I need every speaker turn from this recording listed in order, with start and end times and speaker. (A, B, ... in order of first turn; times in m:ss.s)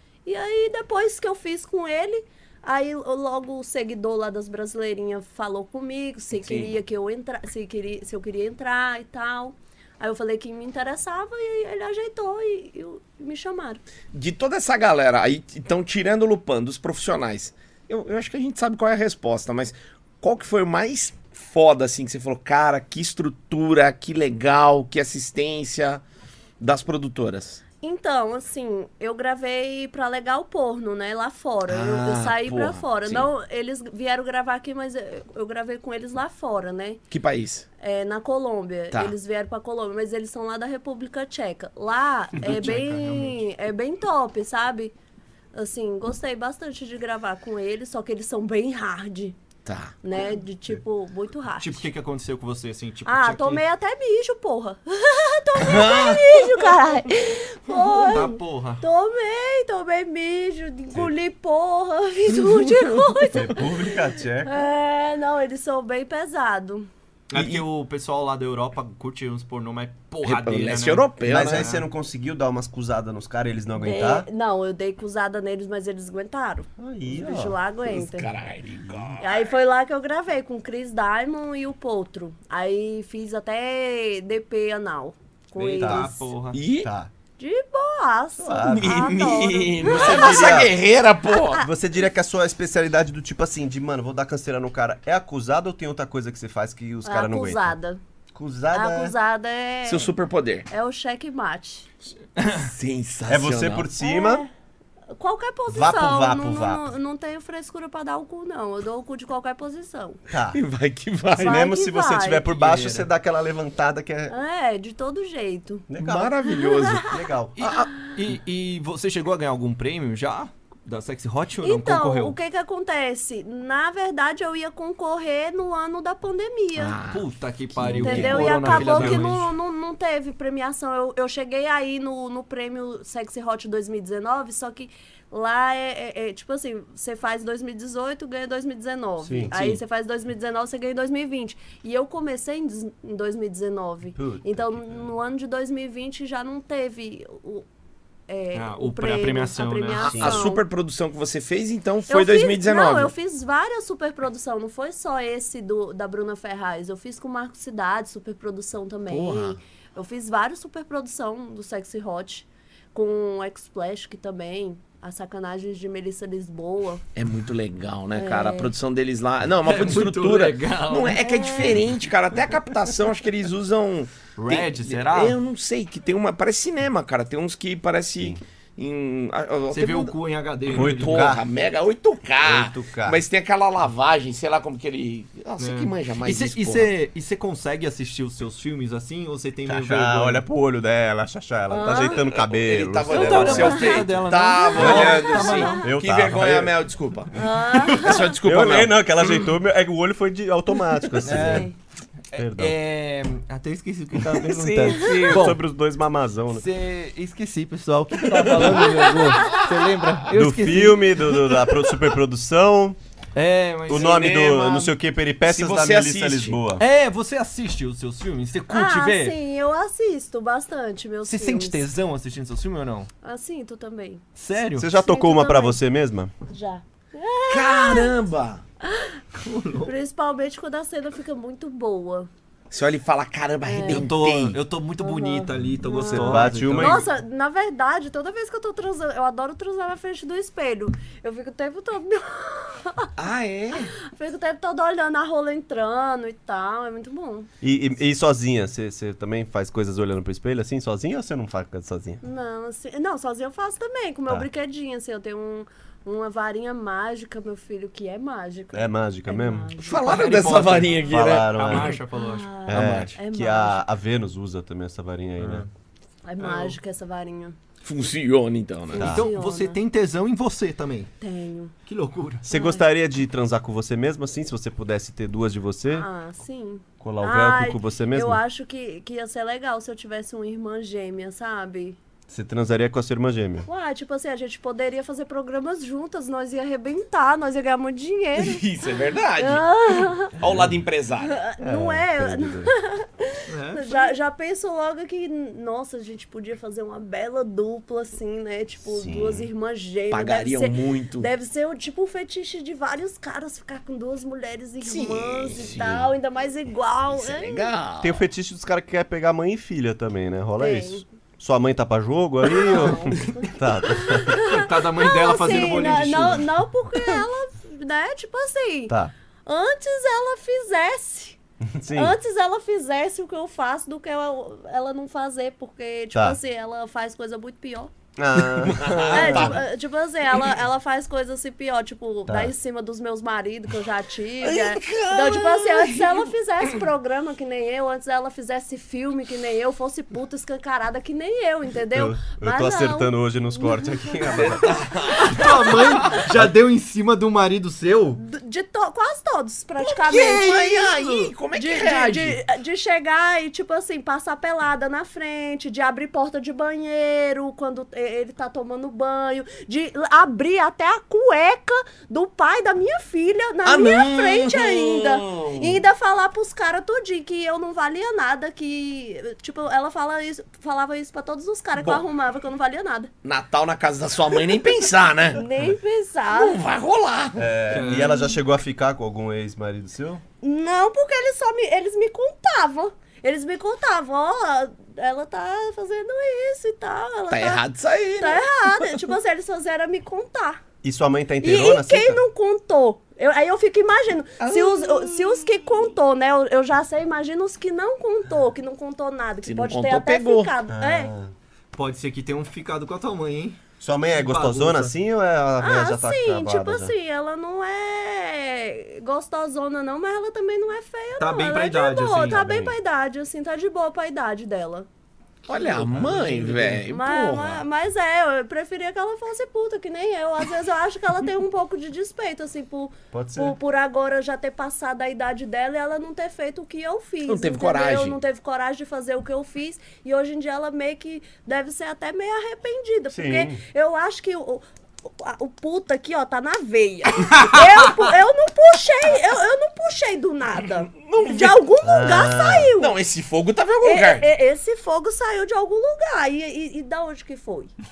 0:00.2-0:13.8 A
0:06.4-0:06.7 B
0:14.1-0:26.0 B
0:26.6-0:27.6 B
0:27.8-0:37.0 A
0:31.7-0:33.3 B
0:37.1-0:37.6 B
0:37.8-0:44.9 A
0:42.4-0:43.4 C
0:45.5-0:49.4 A
0:49.6-0:50.0 B
0:50.0-0:51.8 A
0:51.6-0:53.6 C
0:53.0-1:06.9 A
0:55.6-0:56.7 B
0:58.0-0:58.8 C
1:02.5-1:02.9 B
1:03.3-1:04.6 D
1:07.3-1:11.8 C
1:07.3-1:07.6 B
1:10.2-1:11.7 B
1:11.2-1:14.3 D
1:13.8-1:18.3 A
1:16.8-1:17.6 D
1:17.8-1:19.5 B
1:19.2-1:26.3 A
1:25.6-1:26.6 C
1:25.8-1:26.1 D
1:26.5-1:26.9 B
1:26.8-1:27.1 D
1:27.4-1:30.6 A
1:28.4-1:29.0 D
1:28.6-1:31.6 B
1:29.8-1:30.7 D
1:31.3-1:31.7 A
1:31.5-1:37.7 D
1:37.0-1:38.0 A
1:38.3-1:39.1 D
1:38.7-1:40.1 A
1:39.8-1:40.7 B
1:40.7-1:41.9 A
1:42.5-1:43.9 B
1:43.3-1:44.4 D
1:44.0-1:44.5 A
1:45.1-1:50.2 A
1:45.7-1:46.9 D
1:50.3-1:50.6 D
1:50.5-1:51.6 B
1:51.4-1:52.4 A
1:51.4-1:54.3 D
1:52.5-1:53.1 C
1:54.3-1:55.9 A
1:55.9-1:57.6 D
1:56.0-1:57.9 B
1:56.5-1:57.2 A
1:57.6-2:02.4 C
2:01.6-2:07.0 A
2:06.8-2:07.2 B
2:07.1-2:09.5 C
2:07.8-2:09.2 B
2:07.9-2:27.6 A
2:08.7-2:09.0 D
2:19.2-2:19.8 D
2:24.2-2:24.7 D
2:28.3-2:30.6 A
2:28.5-2:30.2 C
2:30.0-2:33.1 B
2:30.1-2:30.5 D
2:32.1-2:47.0 A
2:39.1-2:39.6 B
2:47.2-3:00.1 B
2:48.1-2:48.7 A
2:49.6-2:51.2 C
2:51.2-2:51.8 A
2:54.4-2:55.4 C
2:59.7-3:01.4 C
3:00.7-3:06.9 B
3:00.7-3:01.4 D
3:02.4-3:03.2 D
3:05.6-3:10.4 C
3:09.6-3:13.9 D
3:11.7-3:12.3 A
3:12.3-3:19.0 B
3:13.1-3:15.8 C
3:13.5-3:15.9 A
3:14.8-3:15.1 D
3:15.8-3:16.7 D
3:17.3-3:18.4 A
3:18.4-3:21.7 D
3:21.2-3:21.7 A
3:21.2-3:21.7 C
3:22.3-3:25.6 C
3:22.3-3:22.7 D
3:24.2-3:26.6 D
3:24.9-3:25.4 A
3:26.5-3:31.0 C
3:28.4-3:29.8 A
3:30.3-3:33.0 D
3:33.3-3:34.2 C
3:33.9-3:36.8 D
3:33.9-3:36.6 B
3:36.8-3:39.3 C
3:38.7-3:41.8 A
3:41.3-3:43.1 C
3:43.2-3:44.2 A
3:44.4-3:44.9 C
3:44.8-3:46.3 D
3:44.9-3:45.8 A
3:46.5-3:48.1 A
3:47.5-3:48.6 B
3:48.8-3:49.2 A
3:49.3-3:49.9 C
3:49.8-3:52.3 A
3:52.7-3:54.6 B
3:53.6-3:54.1 A
3:53.8-3:57.1 C
3:55.0-4:03.1 A
3:56.0-3:57.0 D
4:03.2-4:03.9 B
4:03.7-4:07.5 A
4:07.6-4:12.2 D
4:12.2-4:20.6 A
4:18.7-4:19.7 D
4:19.8-4:21.9 B
4:19.9-4:22.9 C
4:21.1-4:22.0 D
4:22.1-4:23.8 A
4:22.7-4:25.7 D
4:22.7-4:23.1 B
4:25.4-4:25.7 C
4:26.2-4:27.6 A
4:26.4-4:26.7 C
4:27.8-4:29.1 B
4:28.9-4:29.8 A
4:29.0-4:29.3 D
4:29.0-4:31.1 C
4:31.2-4:31.7 A
4:31.8-4:32.5 C
4:32.4-4:36.1 D
4:32.5-4:32.8 A
4:35.9-4:42.0 A
4:37.0-4:38.4 D
4:42.3-4:43.7 D
4:43.7-4:48.6 A
4:48.4-4:51.4 B
4:49.4-4:50.3 A
4:50.4-4:50.7 D
4:51.2-5:07.7 A
4:51.6-4:52.7 D
4:53.5-4:54.1 C
4:58.9-4:59.5 D
5:00.1-5:01.3 B
5:04.8-5:06.0 B
5:05.7-5:06.0 D
5:07.1-5:08.2 B
5:08.0-5:14.5 D
5:10.6-5:11.0 A
5:12.5-5:21.4 A
5:14.5-5:16.5 C
5:21.7-5:22.1 D
5:21.9-5:27.9 A
5:28.2-5:29.6 D
5:28.7-5:29.6 B
5:29.1-5:44.6 A
5:32.3-5:32.5 D
5:34.4-5:36.3 B
5:41.9-5:44.8 D
5:44.6-5:45.6 B
5:45.0-5:48.2 C
5:48.2-6:13.1 A
5:49.8-5:52.4 B
5:50.1-5:50.7 C
6:03.6-6:05.8 B
6:11.8-6:12.0 B
6:13.2-6:15.4 B
6:15.3-6:16.6 A
6:16.3-6:17.5 B
6:17.4-6:20.2 D
6:17.7-6:18.3 C
6:17.9-6:18.3 A
6:20.4-6:27.6 A
6:27.3-6:28.9 B
6:28.2-6:30.6 A
6:30.8-6:32.2 D
6:31.4-6:41.1 A
6:34.4-6:35.7 B
6:39.4-6:40.5 B
6:40.7-6:41.3 D
6:41.7-6:43.6 C
6:43.8-6:46.9 D
6:44.1-6:44.9 C
6:45.6-6:54.9 A
6:51.2-6:52.4 C
6:52.3-6:52.7 D
6:55.5-6:56.8 C
6:55.5-6:57.6 B
6:56.0-6:56.4 D
6:56.9-7:23.0 A
7:03.1-7:03.6 D
7:07.3-7:08.2 B
7:13.1-7:13.6 D
7:20.9-7:21.6 B
7:21.8-7:22.7 D
7:22.8-7:24.2 B
7:23.8-7:27.7 A